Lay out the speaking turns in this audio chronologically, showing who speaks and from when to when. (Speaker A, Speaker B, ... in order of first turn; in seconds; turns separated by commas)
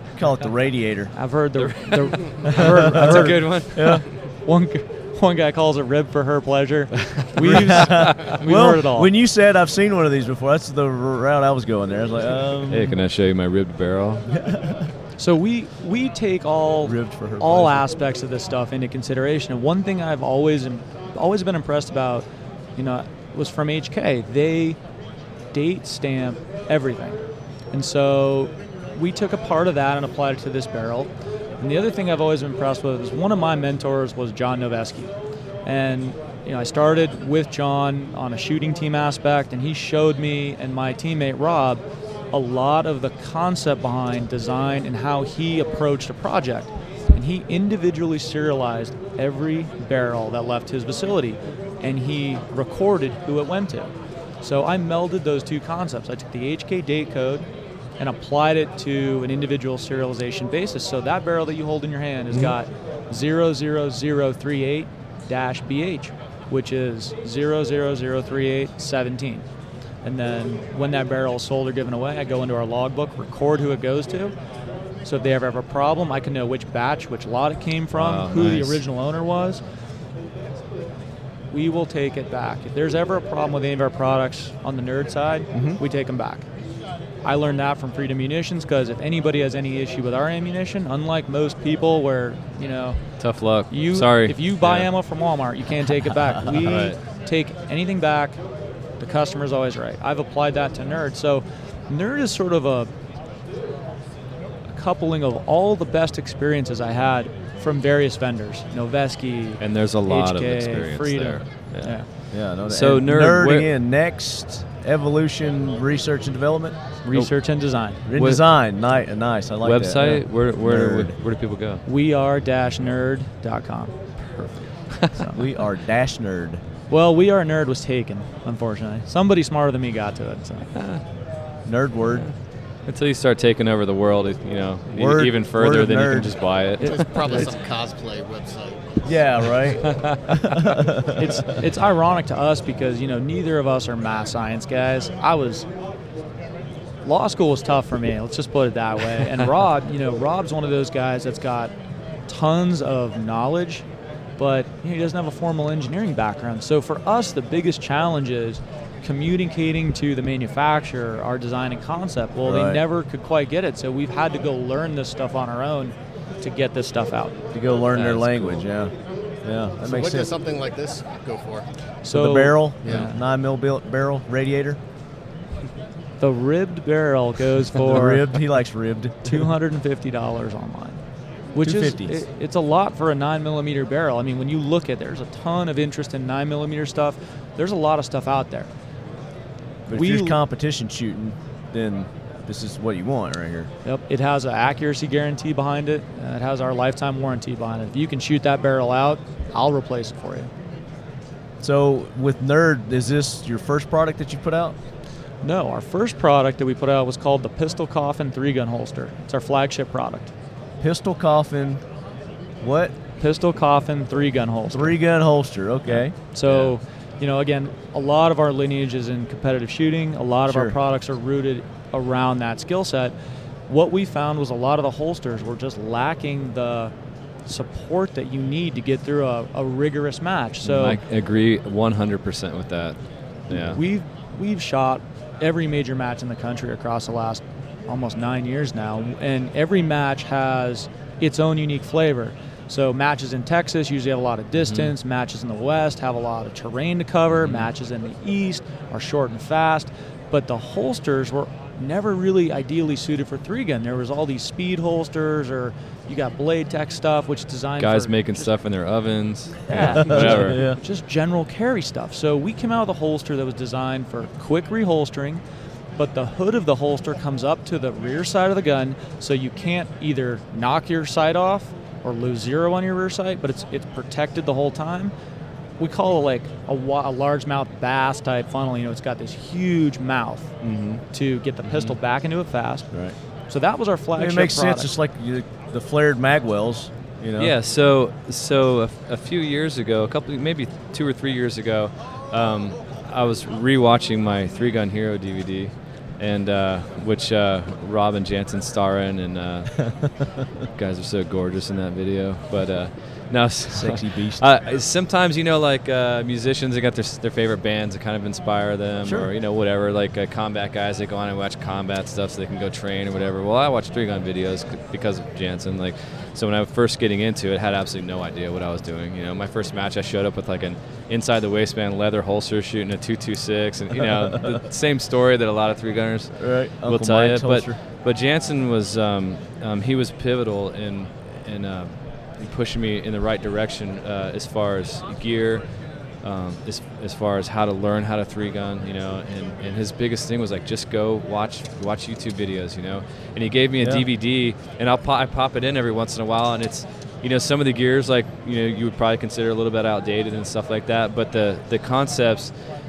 Speaker A: 0.1-1.1, Speaker B: 1.1-9.1, Speaker C: 1.6-4.0, Speaker A: 2.4-4.0, Speaker C: 7.1-8.3, Speaker A: 7.4-13.0, Speaker C: 12.7-14.3, Speaker A: 14.3-14.9, Speaker B: 15.2-24.8, Speaker A: 16.8-17.9, Speaker B: 25.5-27.2, Speaker B: 27.7-35.1, Speaker B: 35.6-57.5, Speaker B: 58.0-69.4, Speaker B: 70.0-74.3, Speaker B: 75.0-79.6, Speaker C: 77.9-78.8, Speaker B: 81.5-86.5, Speaker A: 85.5-85.8, Speaker B: 87.2-93.0, Speaker C: 93.2-94.9, Speaker B: 93.7-98.4, Speaker C: 96.5-97.0, Speaker B: 99.0-102.9, Speaker B: 104.7-112.1, Speaker C: 109.6-113.7, Speaker A: 112.3-116.8, Speaker B: 117.0-118.0, Speaker A: 118.0-121.1, Speaker C: 118.1-118.4, Speaker C: 119.6-121.8, Speaker B: 121.9-125.4, Speaker A: 125.3-126.6, Speaker B: 126.9-130.7, Speaker C: 130.7-131.0, Speaker A: 131.7-132.3, Speaker C: 132.0-132.3, Speaker C: 132.9-137.5, Speaker A: 134.9-136.4, Speaker B: 136.8-137.5, Speaker D: 136.8-139.2, Speaker A: 139.0-141.4, Speaker C: 139.8-140.2, Speaker B: 141.2-145.7, Speaker B: 147.0-151.7, Speaker B: 152.3-153.8, Speaker B: 154.4-167.4, Speaker A: 162.4-162.8, Speaker A: 167.5-168.9, Speaker C: 167.9-168.7, Speaker A: 169.4-170.3, Speaker D: 169.8-171.7, Speaker B: 172.0-173.2, Speaker A: 172.1-174.8, Speaker B: 176.2-178.3, Speaker A: 177.8-179.5, Speaker B: 179.2-181.0, Speaker B: 181.6-188.7, Speaker A: 181.6-182.2, Speaker A: 189.9-193.7, Speaker B: 189.9-190.4, Speaker B: 193.8-200.5, Speaker A: 201.6-204.8, Speaker B: 205.4-210.3, Speaker A: 210.8-211.8, Speaker A: 212.6-212.9, Speaker B: 213.2-215.0, Speaker A: 214.7-216.1, Speaker B: 215.9-223.1, Speaker C: 216.4-216.7, Speaker A: 220.5-220.7, Speaker B: 223.7-226.9, Speaker B: 227.4-231.0, Speaker C: 230.6-233.0, Speaker C: 233.5-233.8, Speaker B: 233.5-258.5, Speaker C: 244.6-244.9, Speaker C: 247.3-247.7, Speaker C: 257.8-260.6, Speaker B: 259.7-265.4, Speaker A: 259.7-260.8, Speaker B: 265.9-275.1, Speaker B: 275.8-280.5, Speaker A: 280.6-281.0, Speaker B: 281.1-282.9, Speaker C: 281.6-281.9, Speaker B: 283.5-284.9, Speaker A: 284.1-287.5, Speaker C: 287.4-299.9, Speaker C: 300.8-335.6, Speaker A: 303.7-304.4, Speaker A: 309.0-309.3, Speaker A: 324.0-324.6, Speaker A: 326.4-327.8, Speaker C: 336.2-352.5